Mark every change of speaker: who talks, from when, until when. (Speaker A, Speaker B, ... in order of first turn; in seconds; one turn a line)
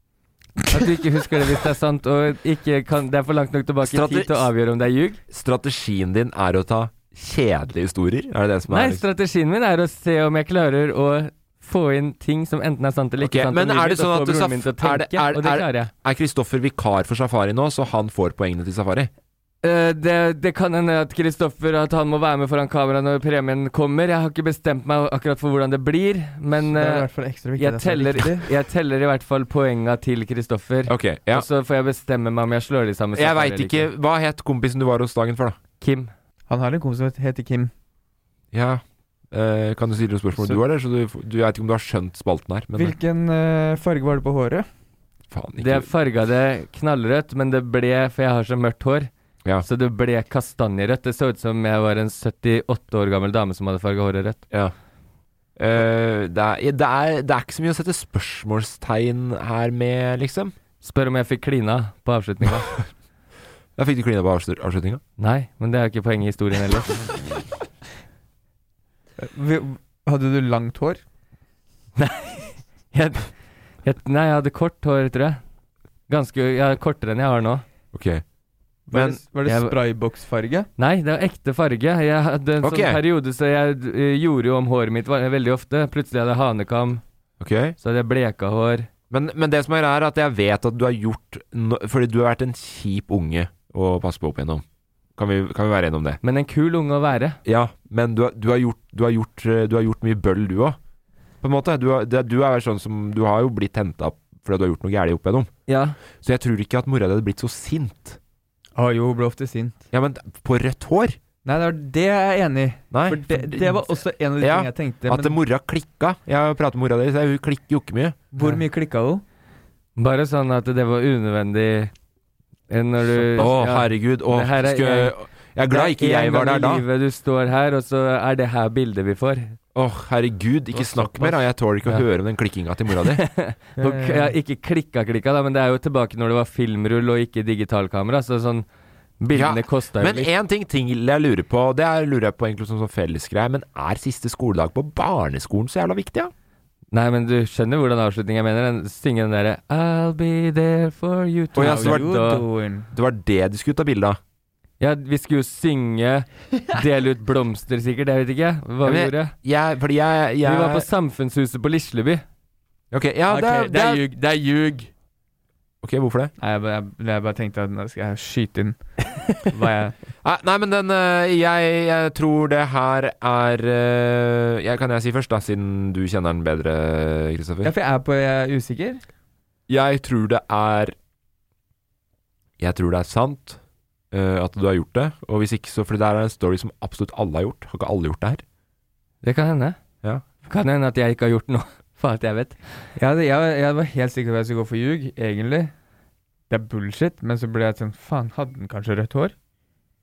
Speaker A: 0.7-5.2
Speaker B: 3.8-4.5
Speaker B: 5.3-9.0
Speaker A: 8.7-15.9
Speaker B: 13.2-19.1
Speaker A: 19.6-27.1
Speaker C: 26.6-28.5
Speaker A: 27.6-33.9
Speaker B: 30.9-31.4
Speaker B: 33.1-35.6
Speaker A: 35.8-36.1
Speaker C: 36.5-37.7
Speaker B: 38.5-42.9
Speaker C: 42.7-44.6
Speaker B: 45.3-45.9
Speaker A: 45.6-49.1
Speaker A: 49.6-54.4
Speaker B: 55.6-60.5
Speaker A: 60.8-62.7
Speaker B: 63.8-65.0
Speaker A: 65.2-67.0
Speaker C: 69.2-71.0
Speaker A: 72.0-73.3
Speaker A: 73.8-75.4
Speaker A: 76.1-77.6
Speaker B: 77.9-78.2
Speaker C: 78.9-80.7
Speaker B: 78.9-79.2
Speaker A: 79.4-79.7
Speaker A: 80.8-87.0
Speaker B: 82.6-83.0
Speaker B: 87.4-87.8
Speaker A: 87.8-88.9
Speaker B: 89.1-94.6
Speaker B: 95.2-96.2
Speaker A: 96.2-97.4
Speaker B: 97.4-100.8
Speaker B: 101.4-105.5
Speaker A: 105.7-106.0
Speaker B: 106.2-108.2
Speaker C: 108.8-109.8
Speaker B: 109.9-111.2
Speaker C: 111.4-115.3
Speaker B: 112.9-118.2
Speaker C: 118.3-119.2
Speaker A: 120.0-121.9
Speaker A: 122.7-125.1
Speaker B: 123.3-126.8
Speaker A: 125.7-129.5
Speaker B: 129.7-133.2
Speaker C: 130.8-131.3
Speaker A: 133.2-138.7
Speaker C: 133.8-134.3
Speaker A: 139.2-140.3
Speaker B: 139.3-146.3
Speaker A: 146.9-152.4
Speaker B: 151.5-152.1
Speaker C: 151.5-152.9
Speaker B: 152.9-154.2
Speaker A: 154.8-159.3
Speaker B: 158.8-160.9
Speaker A: 160.4-162.2
Speaker B: 162.9-164.0
Speaker C: 163.3-164.9
Speaker B: 165.8-166.3
Speaker C: 166.4-170.0
Speaker B: 170.2-177.7
Speaker C: 177.6-179.0
Speaker B: 179.7-180.9
Speaker B: 182.6-183.6
Speaker B: 184.1-188.4
Speaker A: 189.2-189.8
Speaker A: 190.4-192.6
Speaker C: 193.0-195.7
Speaker C: 196.5-199.3